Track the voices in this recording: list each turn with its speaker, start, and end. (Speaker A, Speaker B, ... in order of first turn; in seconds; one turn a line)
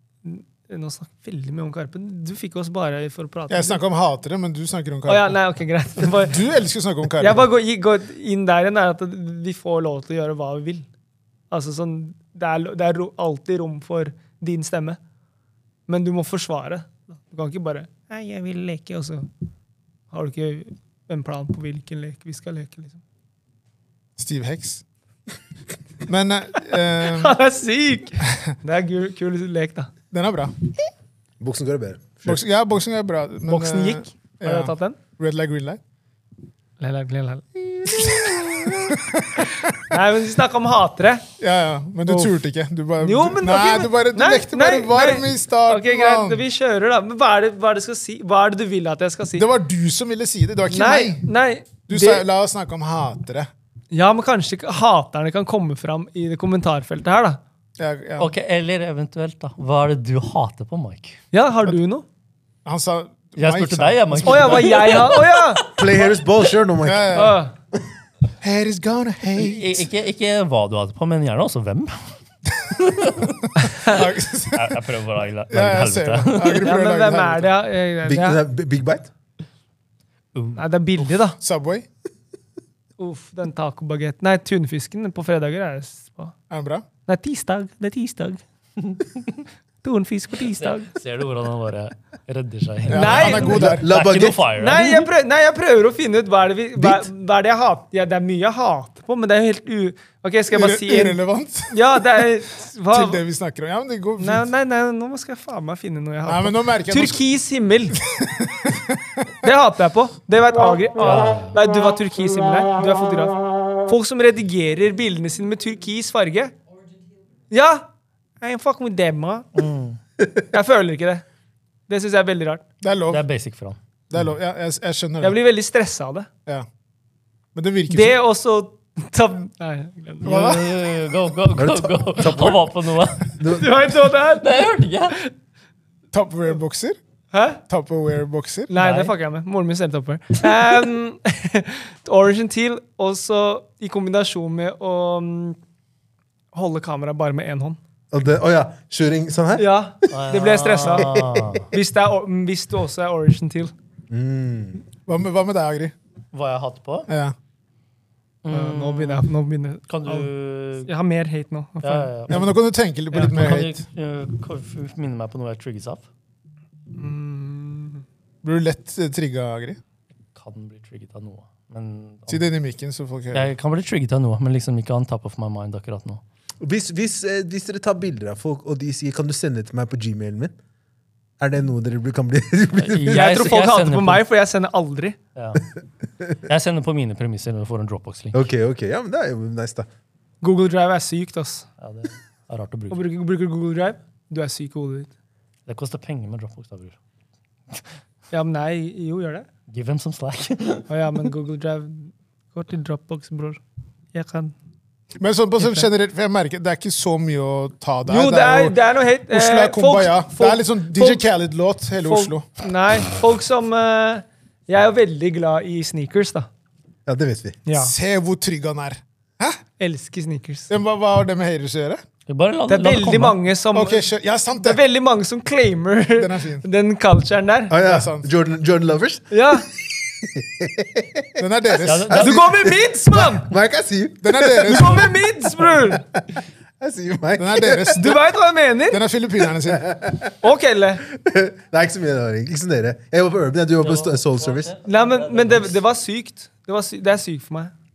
Speaker A: 0.2-3.8
Speaker B: 3.5-5.3
Speaker A: 5.1-6.4
Speaker B: 6.0-7.5
Speaker A: 7.2-10.9
Speaker A: 11.5-15.0
Speaker A: 15.9-19.3
Speaker A: 20.1-23.0
Speaker B: 24.2-24.8
Speaker B: 26.1-27.4
Speaker A: 26.9-29.9
Speaker B: 30.1-30.5
Speaker C: 31.4-32.4
Speaker B: 32.3-35.8
Speaker A: 33.5-35.0
Speaker A: 36.8-41.3
Speaker B: 37.9-40.0
Speaker B: 41.4-46.4
Speaker A: 42.1-42.4
Speaker A: 43.0-49.5
Speaker B: 49.4-51.3
Speaker A: 50.7-52.2
Speaker B: 51.9-53.5
Speaker A: 53.9-57.4
Speaker B: 57.8-58.3
Speaker D: 58.2-61.2
Speaker A: 61.3-62.1
Speaker B: 62.6-64.9
Speaker D: 63.4-66.2
Speaker A: 64.2-65.7
Speaker C: 65.7-67.4
Speaker B: 66.8-67.4
Speaker A: 67.1-67.5
Speaker B: 68.4-69.9
Speaker D: 69.4-72.1
Speaker D: 72.7-73.5
Speaker A: 73.6-74.0
Speaker B: 73.6-74.8
Speaker D: 74.5-76.7
Speaker B: 75.5-77.5
Speaker A: 76.6-78.4
Speaker C: 78.0-79.1
Speaker D: 80.3-80.6
Speaker A: 80.6-81.4
Speaker B: 81.4-81.9
Speaker A: 83.0-86.3
Speaker B: 86.5-86.8
Speaker A: 87.1-88.4
Speaker D: 88.8-89.4
Speaker A: 89.8-91.0
Speaker D: 90.6-95.1
Speaker B: 92.9-93.9
Speaker A: 92.9-93.8
Speaker C: 93.4-94.4
Speaker A: 94.5-101.2
Speaker C: 96.8-97.1
Speaker B: 100.5-102.3
Speaker A: 101.7-103.2
Speaker B: 102.9-104.5
Speaker A: 104.2-108.0
Speaker B: 106.3-107.2
Speaker B: 108.0-109.3
Speaker A: 109.4-116.5
Speaker D: 111.0-111.6
Speaker A: 117.5-117.9
Speaker A: 118.4-119.5
Speaker D: 119.5-120.0
Speaker A: 120.5-121.2
Speaker A: 121.9-122.6
Speaker B: 122.8-123.2
Speaker D: 123.1-123.8
Speaker B: 124.1-125.4
Speaker A: 125.2-126.3
Speaker B: 127.5-128.2
Speaker A: 127.9-130.4
Speaker B: 130.2-130.7
Speaker D: 130.2-133.6
Speaker C: 131.6-132.7
Speaker C: 133.3-133.7
Speaker A: 133.5-135.3
Speaker D: 134.2-135.2
Speaker B: 136.1-137.0
Speaker A: 137.3-137.6
Speaker B: 137.7-138.7
Speaker A: 138.7-145.6
Speaker D: 138.8-139.1
Speaker A: 146.5-147.8
Speaker C: 148.1-150.2
Speaker A: 149.6-153.7
Speaker D: 150.1-151.7
Speaker C: 150.9-151.7
Speaker C: 154.1-154.8
Speaker B: 155.1-155.9
Speaker D: 156.3-157.1
Speaker B: 157.1-157.3
Speaker D: 158.4-159.3
Speaker A: 158.5-160.3
Speaker D: 159.9-160.9
Speaker A: 160.8-162.1
Speaker D: 161.8-162.5
Speaker B: 162.3-163.8
Speaker D: 163.1-166.1
Speaker A: 166.9-168.0
Speaker B: 168.4-169.8
Speaker D: 170.3-172.5
Speaker B: 172.3-173.5
Speaker D: 173.3-176.2
Speaker C: 176.6-180.6
Speaker C: 181.4-183.3
Speaker D: 182.8-184.2
Speaker A: 183.1-185.2
Speaker D: 185.4-185.7
Speaker D: 186.3-188.4
Speaker C: 188.3-189.9
Speaker A: 190.4-191.7
Speaker D: 191.8-193.0
Speaker A: 192.9-195.1
Speaker D: 195.7-197.0
Speaker A: 198.3-199.5
Speaker D: 199.7-201.3
Speaker A: 200.9-203.6
Speaker A: 204.1-204.5
Speaker B: 205.2-208.8
Speaker A: 208.1-211.2
Speaker B: 209.3-212.5
Speaker A: 212.0-216.5
Speaker C: 217.1-217.6
Speaker A: 217.7-217.9
Speaker B: 217.8-219.6
Speaker A: 219.8-220.7
Speaker B: 220.7-222.0
Speaker D: 222.3-223.4
Speaker A: 222.7-224.1
Speaker B: 223.7-224.8
Speaker A: 224.6-227.8
Speaker B: 226.2-226.7
Speaker C: 227.7-231.4
Speaker B: 227.8-228.3
Speaker A: 229.3-229.7
Speaker B: 231.4-232.5
Speaker D: 231.8-232.5
Speaker A: 232.1-233.5
Speaker C: 233.1-235.1
Speaker B: 234.2-235.1
Speaker A: 234.6-236.1
Speaker C: 235.7-236.2
Speaker C: 236.8-238.0
Speaker B: 237.4-238.2
Speaker A: 237.9-239.0
Speaker B: 238.9-240.0
Speaker C: 239.6-240.3
Speaker A: 240.4-241.1
Speaker C: 241.1-244.7
Speaker D: 243.8-245.8
Speaker A: 244.8-247.7